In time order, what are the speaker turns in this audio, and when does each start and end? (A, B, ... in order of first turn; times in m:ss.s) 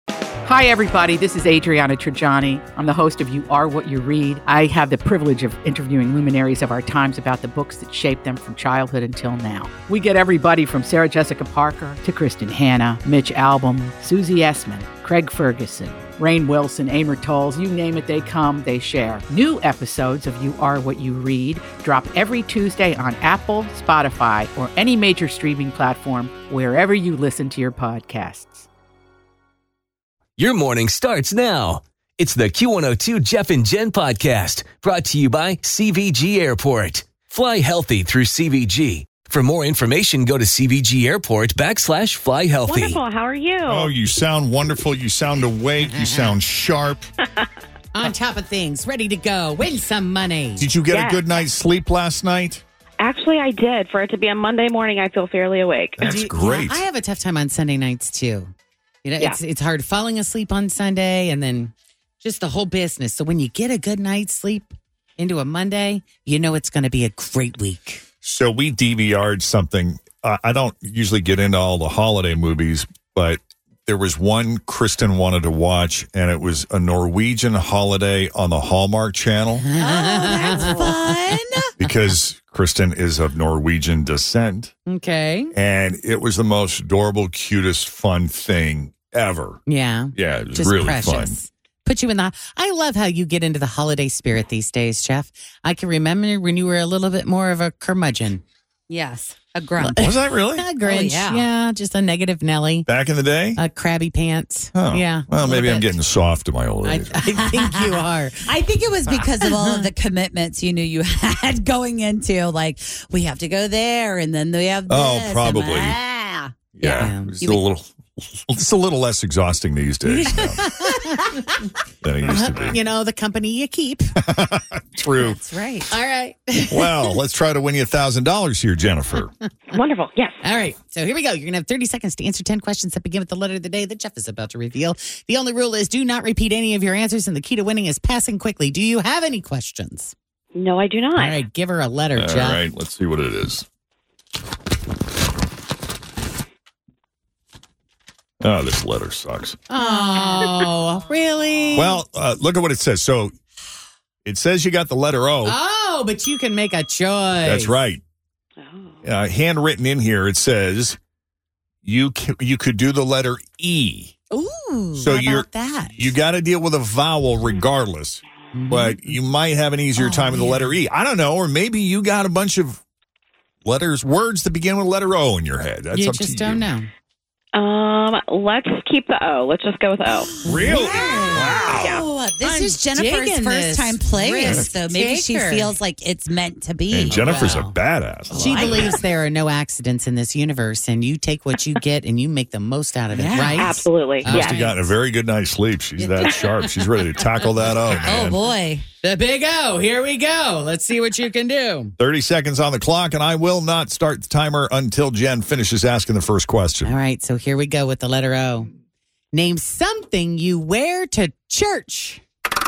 0:00.4-0:28.7 A
0:30.4-0:43.0 B
0:42.6-0:43.9 C
0:43.6-0:47.1 D
0:47.9-0:50.7 E
0:50.6-0:52.6 D
0:50.9-0:51.2 C
0:53.0-0:56.0 C
0:56.0-0:56.8 D
0:56.0-0:58.5 E
0:59.0-1:08.0 E
1:08.2-1:19.6 D
1:19.6-1:21.4 E
1:19.8-1:21.7 F
1:21.8-1:24.7 D
1:24.9-1:25.5 E
1:25.5-1:29.6 D
1:29.7-1:38.4 E
1:30.1-1:31.4 D
1:38.9-1:40.1 F
1:39.9-1:42.9 E
1:40.0-1:40.6 D
1:40.8-1:41.4 F
1:42.9-1:43.6 D
1:43.6-1:45.9 E
1:44.7-1:47.3 D
1:46.8-1:48.5 E
1:47.8-1:57.6 F
1:49.1-1:49.5 E
1:54.9-1:56.0 D
1:56.7-2:00.6 D
1:56.9-1:57.3 E
2:00.0-2:01.6 E
2:02.0-2:02.8 D
2:02.2-2:04.2 E
2:04.2-2:05.4 D
2:05.2-2:05.9 F
2:05.9-2:07.2 E
2:06.7-2:09.3 D
2:09.7-2:10.4 C
2:10.4-2:20.1 E
2:20.5-2:21.4 C
2:21.2-2:22.6 E
2:22.1-2:23.6 D
2:28.4-2:29.6 D
2:29.7-2:32.0 E
2:29.8-2:30.6 F
2:31.7-2:33.3 D
2:34.2-2:35.6 D
2:35.4-2:37.7 E
2:37.4-2:38.0 D
2:38.6-2:39.0 C
2:39.0-2:41.0 D
2:41.8-2:44.1 D
2:44.3-2:46.1 E
2:45.0-2:52.8 D
2:48.5-2:49.2 E
2:50.1-2:50.6 E
2:53.6-2:56.7 D
2:55.9-2:56.9 E
2:57.5-3:00.3 C
3:00.4-3:02.0 D
3:00.4-3:01.2 E
3:00.5-3:07.3 F
3:01.8-3:02.0 C
3:02.4-3:05.8 E
3:06.9-3:08.9 D
3:07.1-3:07.8 E
3:08.3-3:14.8 E
3:13.1-3:13.7 F
3:13.5-3:14.6 C
3:14.2-3:18.4 D
3:16.0-3:16.9 E
3:18.0-3:18.8 F
3:19.0-3:22.0 E
3:22.0-3:27.0 D
3:26.8-3:28.7 E
3:29.3-3:32.2 E